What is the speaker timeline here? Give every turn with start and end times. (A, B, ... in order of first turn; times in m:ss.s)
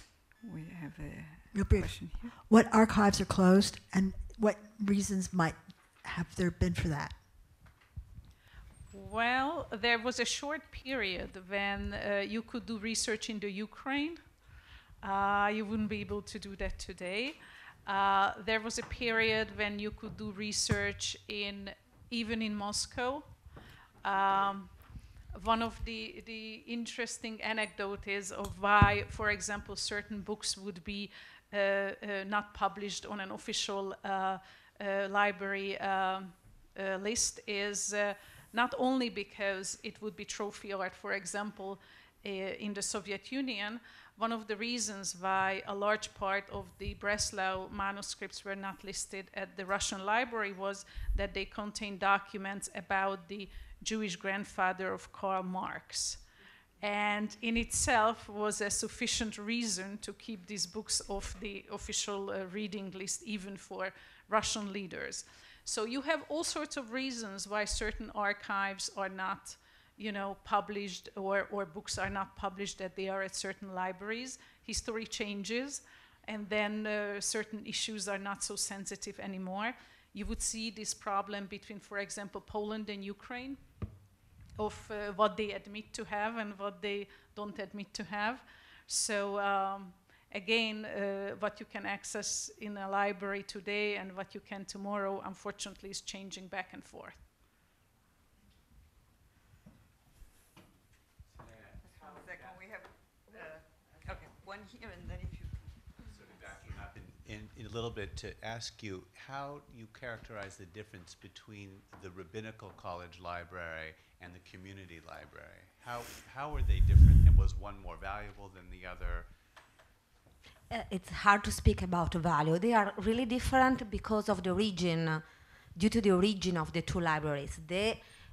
0:00.4-0:02.4 A
0:01.5-0:07.2 B
0:08.9-0:14.4 C
0:15.0-0:23.4 C
0:24.0-0:24.7 C
0:25.3-0:56.2 C
0:56.8-1:23.6 C
1:24.6-1:37.2 C
1:41.3-1:42.7 D
1:41.9-1:45.6 A
1:46.1-1:59.3 D
2:00.7-2:05.2 E
2:05.8-2:08.0 E